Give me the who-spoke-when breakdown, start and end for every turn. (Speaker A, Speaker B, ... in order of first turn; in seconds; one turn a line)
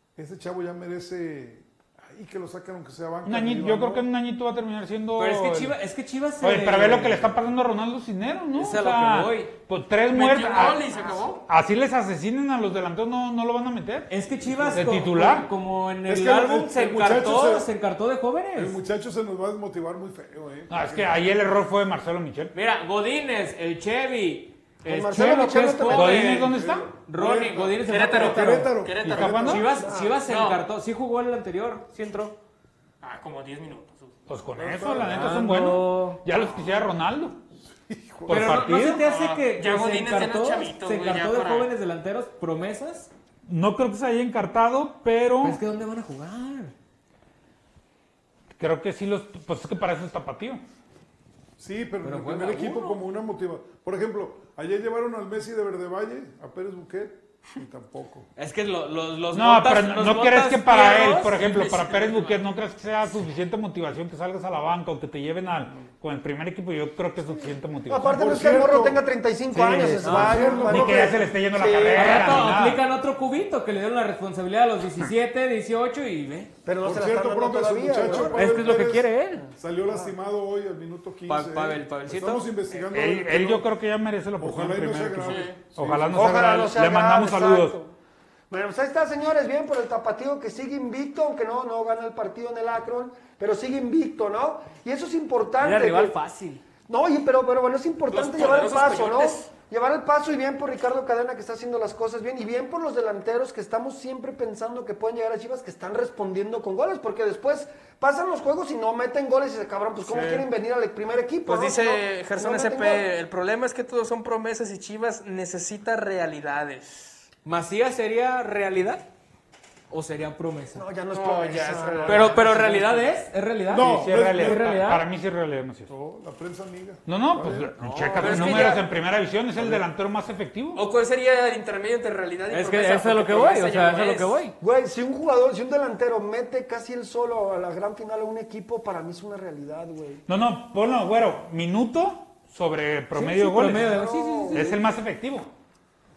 Speaker A: 0.2-4.1
Speaker B: 3.2-5.8
Speaker C: 5.2-7.3
Speaker B: 6.4-10.9
Speaker C: 8.5-9.5
Speaker D: 10.1-11.4
Speaker B: 11.4-14.1
Speaker C: 14.1-18.8
Speaker A: 14.5-14.9
Speaker B: 14.7-15.5
Speaker A: 16.1-17.7
Speaker A: 18.6-21.2
Speaker B: 20.7-22.6
Speaker C: 22.5-28.8
Speaker E: 24.9-26.4
Speaker B: 25.9-26.9
Speaker A: 26.4-29.7
Speaker D: 27.9-29.6
Speaker B: 29.0-29.7
Speaker C: 29.3-32.4
Speaker E: 29.8-30.2
Speaker D: 30.3-30.6
Speaker D: 33.0-34.1
Speaker B: 34.3-37.4
Speaker A: 34.5-35.4
Speaker C: 35.0-36.2
Speaker A: 37.6-38.8
Speaker B: 38.3-39.1
Speaker C: 38.3-43.1
Speaker D: 39.0-41.7
Speaker B: 43.5-45.6
Speaker C: 45.4-46.7
Speaker B: 48.6-50.6
Speaker A: 51.6-58.3
Speaker C: 52.0-53.0
Speaker C: 58.4-62.3
Speaker B: 59.3-68.2
Speaker A: 65.5-65.9
Speaker E: 67.9-72.3
Speaker A: 68.0-69.0
Speaker B: 69.5-72.8
Speaker C: 69.7-70.7
Speaker A: 69.7-71.3
Speaker C: 71.9-76.5
Speaker E: 76.7-80.1
Speaker A: 76.8-83.7
Speaker C: 78.1-79.5
Speaker C: 81.3-82.8
Speaker B: 82.9-87.8
Speaker A: 84.4-86.6
Speaker D: 85.2-85.6
Speaker E: 86.1-87.9
Speaker E: 88.5-96.2
Speaker C: 95.6-96.6
Speaker E: 96.9-113.1
Speaker D: 98.1-99.5
Speaker D: 110.1-110.5
Speaker D: 111.5-117.3
Speaker C: 117.5-119.0
Speaker C: 119.9-120.8
Speaker E: 120.8-123.0
Speaker D: 121.1-122.5
Speaker C: 122.1-125.0
Speaker A: 123.7-125.0
Speaker B: 123.8-125.9
Speaker A: 125.9-127.7
Speaker B: 127.1-130.8
Speaker C: 127.8-128.8
Speaker D: 128.2-128.8
Speaker D: 130.8-134.4
Speaker C: 132.5-134.6
Speaker E: 134.6-140.2
Speaker B: 140.3-144.0
Speaker C: 143.1-144.8
Speaker E: 143.8-144.8
Speaker B: 144.5-145.5